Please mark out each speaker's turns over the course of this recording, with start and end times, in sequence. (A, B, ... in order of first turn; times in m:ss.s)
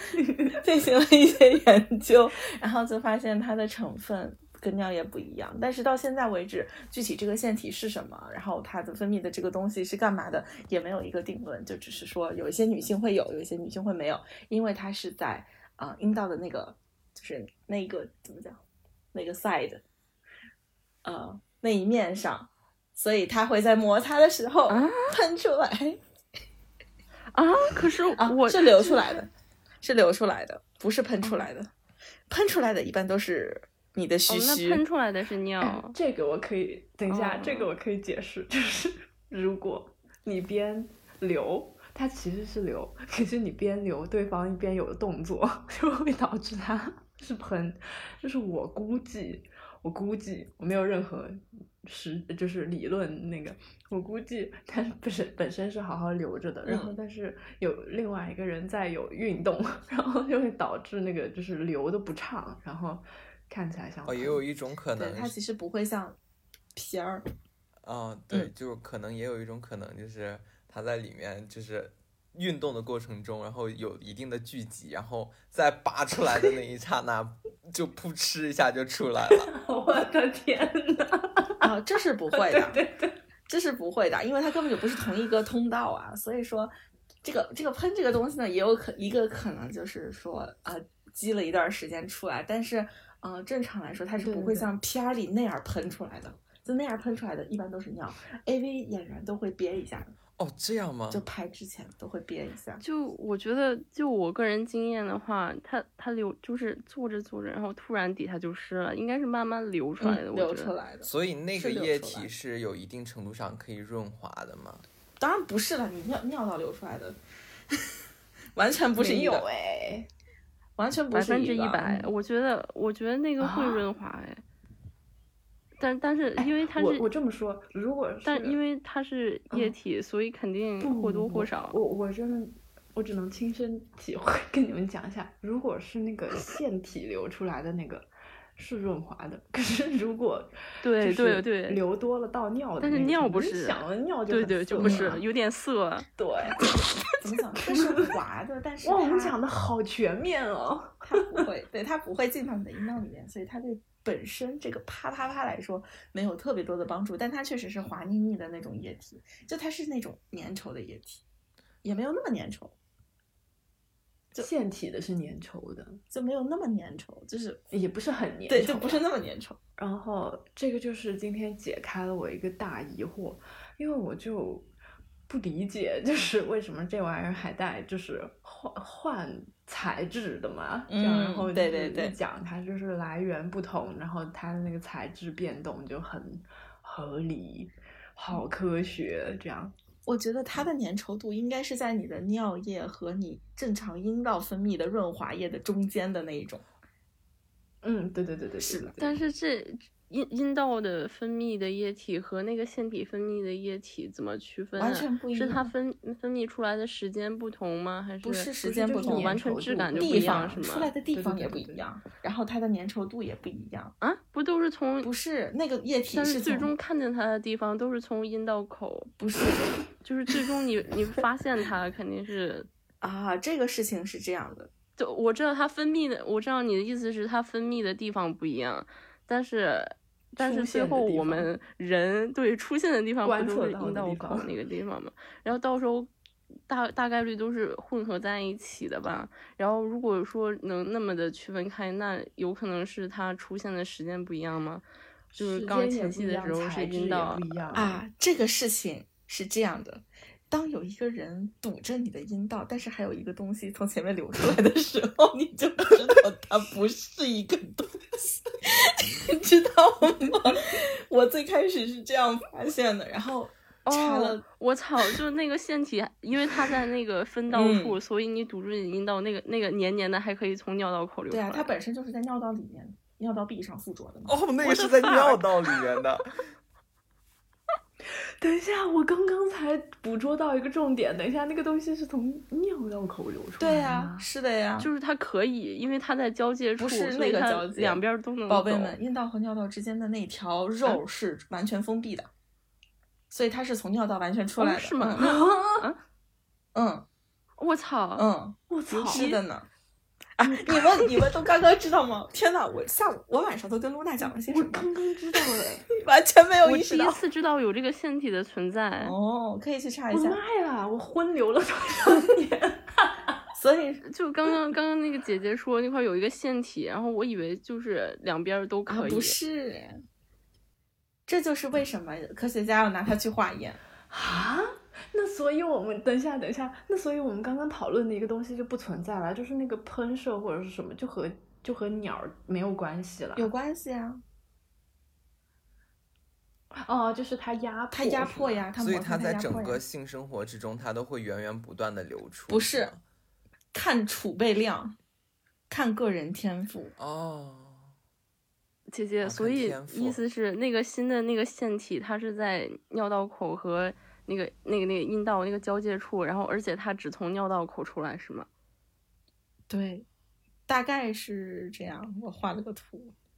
0:00.2-0:00.5 A
0:00.5-0:18.6 B
0:19.1-0:19.8 B
0:21.0-0:26.0 B
0:24.7-0:25.1 C
0:27.3-0:28.9 C
0:28.2-0:29.3 B
0:28.9-0:29.2 A
0:29.8-0:31.7 B
0:32.3-0:34.8 B
0:34.3-0:35.9 C
0:35.6-1:04.4 A
0:37.1-0:37.7 C
0:56.6-0:57.0 B
1:04.0-1:05.4 D
1:05.0-1:06.2 B
1:06.7-1:07.2 B
1:07.8-1:19.5 D
1:19.4-1:21.6 A
1:21.6-1:22.8 B
1:22.3-1:23.2 A
1:23.5-1:26.7 B
1:27.2-1:40.1 B
1:34.2-1:34.7 A
1:40.4-1:41.2 D
1:41.1-1:42.8 B
1:42.8-1:50.7 C
1:50.0-1:52.3 B
1:51.0-1:54.8 D
1:55.2-1:57.2 B
1:58.5-1:59.4 B
1:59.0-2:00.1 A
2:00.8-2:02.1 B
2:01.1-2:04.4 C
2:03.4-2:03.8 A
2:05.8-2:07.1 C
2:06.4-2:08.6 A
2:08.2-2:11.8 C
2:10.8-2:25.2 A
2:20.8-2:21.8 C
2:22.8-2:26.1 C
2:24.8-2:25.2 B
2:26.2-2:26.6 A
2:27.2-2:29.4 B
2:28.8-2:31.3 A
2:31.0-2:41.2 B
2:41.8-2:42.7 B
2:44.4-2:46.0 A
2:46.1-2:47.6 B
2:47.7-2:49.0 A
2:48.5-2:49.6 B
2:49.8-2:54.7 A
2:55.3-3:09.7 A
3:00.9-3:02.2 B
3:10.0-3:16.6 B
3:17.8-3:19.2 A
3:18.6-3:18.9 B
3:19.0-3:30.9 C
3:24.8-3:25.7 B
3:28.2-3:29.4 B
3:29.0-3:30.6 A
3:30.0-3:33.9 B
3:31.1-3:31.8 A
3:34.0-3:35.1 C
3:35.0-3:36.7 B
3:36.1-3:39.1 C
3:39.2-3:39.8 B
3:40.0-3:42.7 C
3:43.0-3:44.7 B
3:45.0-3:56.1 C
3:50.4-3:51.5 A
3:53.2-3:54.5 A
3:56.7-4:07.6 C
4:05.3-4:08.0 A
4:07.7-4:24.4 B
4:23.8-4:31.7 C
4:27.5-4:28.0 B
4:31.3-4:34.3 B
4:34.3-4:36.4 D
4:34.6-4:35.4 C
4:38.4-4:44.2 A
4:43.6-4:44.9 B
4:44.8-4:49.0 C
4:46.8-4:52.3 B
4:53.3-4:56.0 B
4:54.6-4:55.3 C
4:55.2-4:55.8 A
4:56.7-4:57.0 B
4:57.6-4:58.2 C
4:58.2-4:59.7 B
4:58.7-4:59.3 A
4:58.9-4:59.4 C
5:00.4-5:04.9 B
5:00.4-5:01.3 A
5:04.2-5:05.8 A
5:05.4-5:07.2 B
5:06.6-5:09.2 C
5:09.0-5:10.4 B
5:10.1-5:13.1 A
5:13.5-5:14.0 B
5:14.0-5:19.4 C
5:18.9-5:20.0 B
5:21.3-5:23.8 B
5:24.1-5:33.5 A
5:33.4-5:34.2 B
5:36.8-5:38.7 A
5:37.9-5:39.8 B
5:38.8-5:43.0 D
5:42.5-5:42.9 B
5:43.7-5:45.0 B
5:45.7-5:46.9 B
5:47.0-5:47.9 D
5:48.9-5:58.5 C
5:49.2-5:50.2 D
5:59.7-6:00.0 B
6:00.7-6:03.1 B